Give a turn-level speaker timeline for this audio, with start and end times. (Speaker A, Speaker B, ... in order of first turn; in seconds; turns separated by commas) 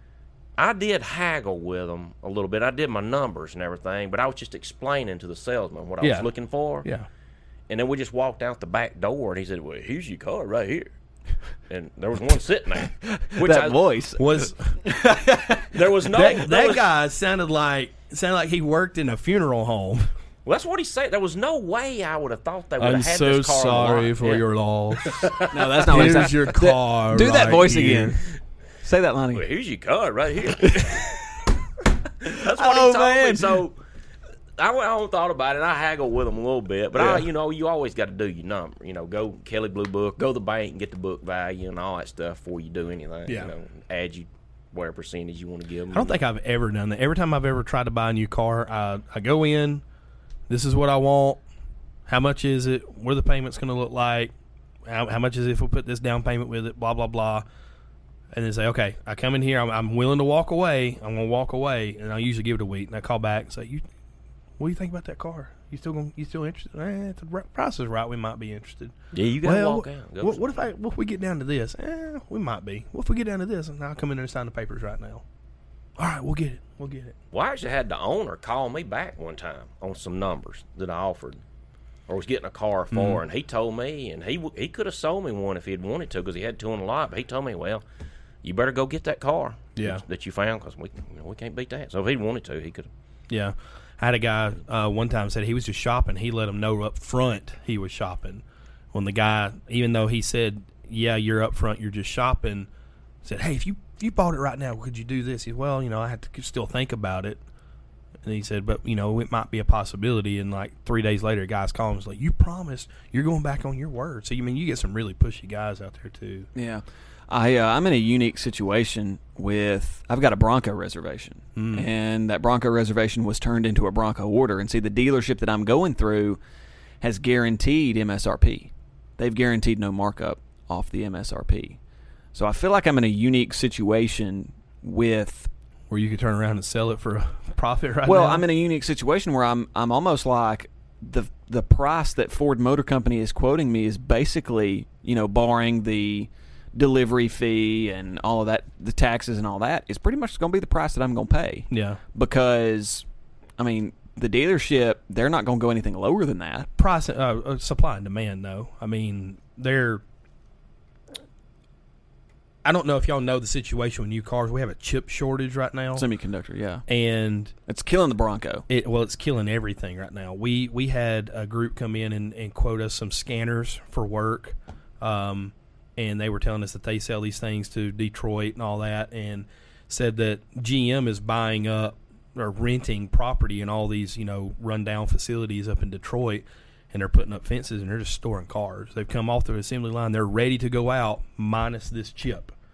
Speaker A: 0.6-6.9, Speaker B: 6.0-6.3, Speaker A: 7.7-10.9, Speaker A: 11.7-13.8, Speaker C: 13.0-15.7, Speaker B: 14.2-14.7, Speaker A: 15.7-16.9, Speaker B: 16.1-20.1, Speaker A: 20.4-26.3, Speaker B: 22.8-25.3, Speaker C: 25.5-28.3, Speaker B: 25.9-28.2, Speaker C: 28.8-29.4, Speaker A: 29.3-31.0, Speaker C: 30.6-31.2, Speaker C: 32.2-33.6, Speaker A: 32.2-33.8, Speaker A: 34.6-46.2, Speaker B: 37.0-37.3, Speaker B: 43.3-43.5, Speaker B: 45.9-49.8, Speaker B: 50.5-51.4, Speaker B: 52.1-54.3, Speaker B: 54.9-57.5, Speaker B: 58.3-63.8, Speaker B: 64.6-75.2, Speaker A: 69.1-70.5, Speaker B: 76.0-77.2, Speaker A: 77.3-81.4, Speaker A: 82.1-87.8, Speaker B: 82.9-83.2, Speaker A: 88.4-92.9, Speaker B: 89.8-90.0, Speaker B: 93.3-102.7, Speaker B: 103.2-107.4, Speaker B: 108.2-116.5, Speaker C: 116.5-126.4, Speaker B: 121.6-121.9, Speaker C: 127.0-131.8, Speaker C: 132.3-135.5, Speaker B: 135.9-138.5, Speaker C: 138.1-153.1, Speaker B: 151.7-152.0, Speaker C: 153.6-156.7, Speaker B: 156.8-160.0, Speaker B: 162.6-166.1, Speaker C: 166.0-166.9, Speaker B: 166.9-167.5, Speaker C: 167.7-168.7, Speaker B: 168.7-192.5